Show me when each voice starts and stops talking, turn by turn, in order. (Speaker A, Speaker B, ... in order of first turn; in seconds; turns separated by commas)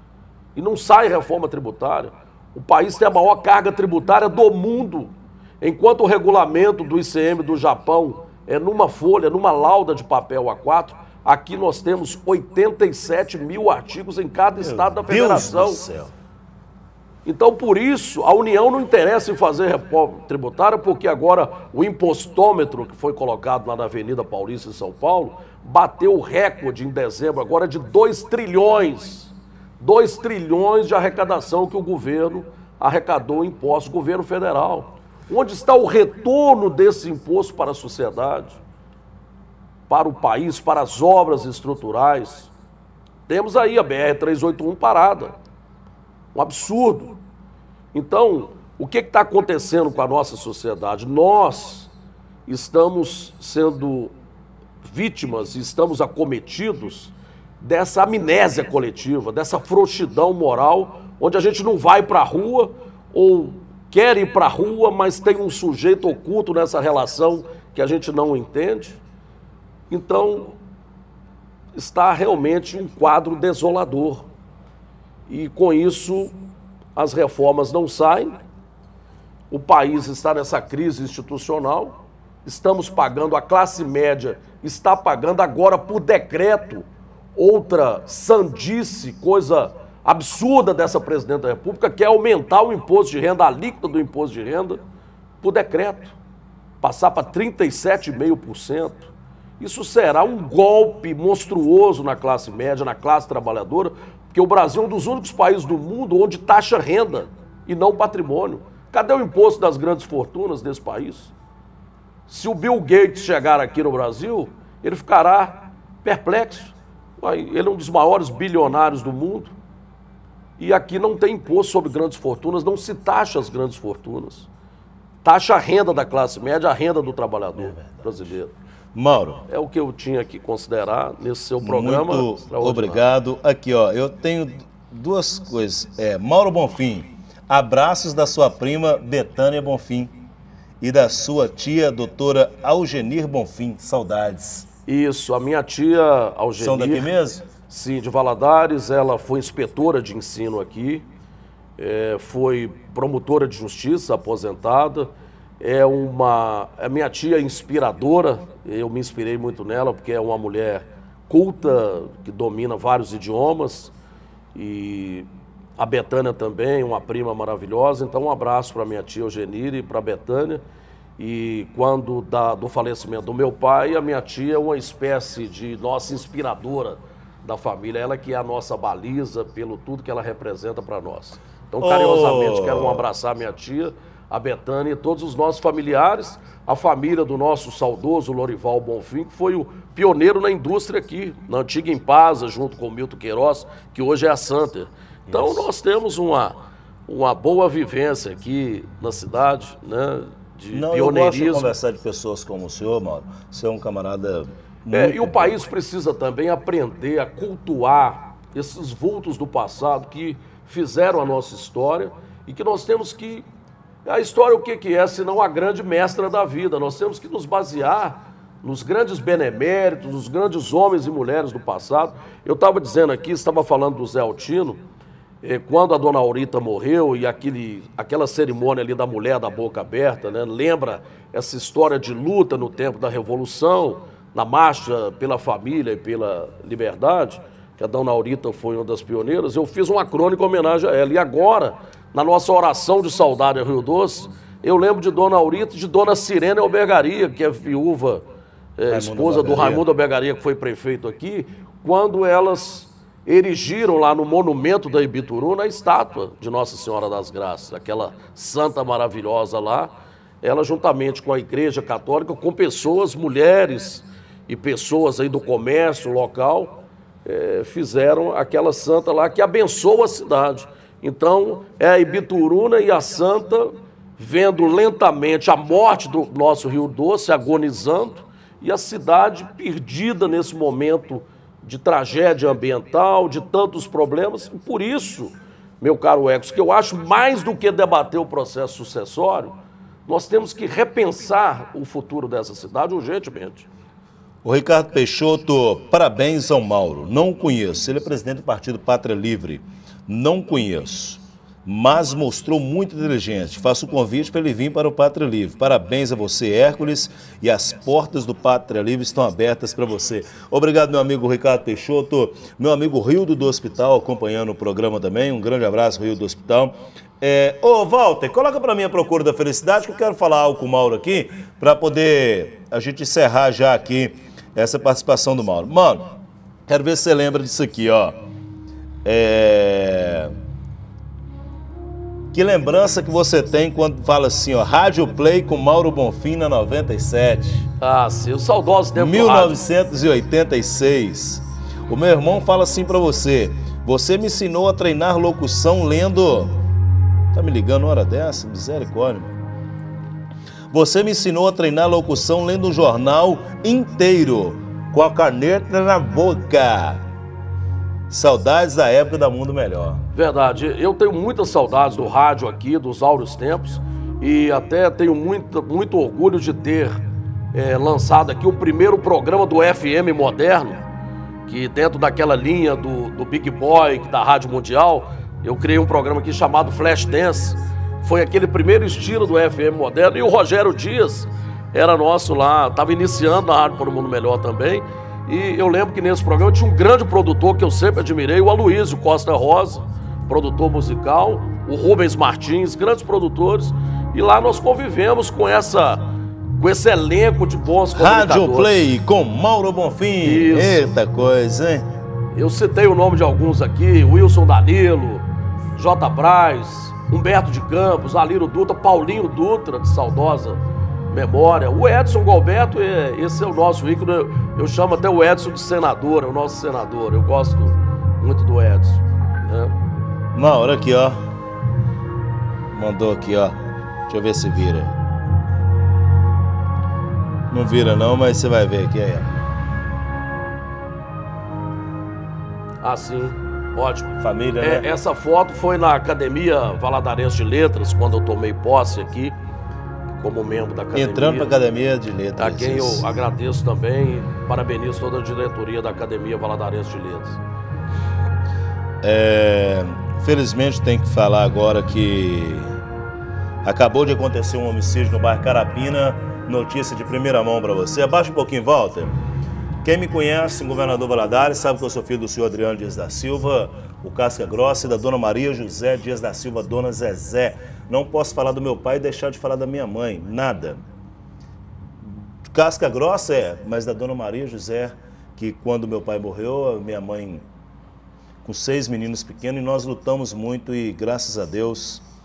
Speaker A: 0.6-15.8, Speaker B: 14.6-16.1, Speaker A: 17.2-38.6, Speaker A: 39.9-42.5, Speaker A: 43.3-45.4, Speaker A: 46.4-47.2, Speaker A: 47.9-51.9, Speaker A: 52.5-54.1, Speaker A: 54.8-69.0, Speaker A: 69.9-70.6, Speaker A: 71.8-74.3, Speaker A: 75.3-76.3, Speaker A: 77.0-78.4, Speaker A: 79.5-94.8, Speaker A: 95.4-96.2, Speaker A: 96.8-111.3, Speaker A: 112.3-119.5, Speaker A: 120.6-124.5, Speaker A: 125.2-128.5, Speaker B: 127.6-128.1, Speaker B: 128.9-129.4, Speaker A: 129.5-133.1, Speaker B: 131.6-140.1, Speaker B: 140.8-144.7, Speaker A: 144.9-147.1, Speaker B: 146.6-147.4, Speaker A: 147.7-151.1, Speaker A: 151.8-163.9, Speaker A: 164.6-170.6, Speaker A: 171.2-201.8, Speaker B: 181.8-183.0, Speaker B: 195.3-195.7, Speaker B: 200.7-205.5, Speaker A: 204.9-213.5, Speaker A: 214.1-224.8, Speaker A: 225.4-248.2, Speaker A: 248.8-289.6, Speaker B: 248.9-249.8, Speaker A: 290.1-293.7, Speaker B: 294.4-326.1, Speaker B: 326.7-328.2, Speaker B: 329.0-330.3, Speaker B: 332.3-337.7, Speaker A: 337.8-339.6, Speaker B: 338.9-346.6, Speaker B: 347.3-349.3, Speaker B: 350.7-357.0, Speaker B: 358.1-360.0, Speaker A: 360.1-367.0, Speaker A: 367.5-370.8, Speaker A: 371.5-396.0, Speaker A: 396.6-398.8, Speaker B: 397.9-401.9, Speaker A: 400.2-400.9, Speaker A: 402.3-405.2, Speaker A: 405.8-410.6, Speaker A: 411.1-419.7, Speaker B: 420.3-421.2, Speaker B: 422.7-423.6, Speaker B: 424.1-424.9, Speaker B: 427.5-429.3, Speaker A: 432.8-439.4, Speaker B: 434.2-434.8, Speaker A: 440.2-441.5, Speaker B: 440.9-443.1, Speaker A: 442.4-447.4, Speaker B: 449.0-452.8, Speaker B: 453.6-459.2, Speaker B: 459.8-470.8, Speaker B: 472.0-477.4, Speaker B: 478.4-482.0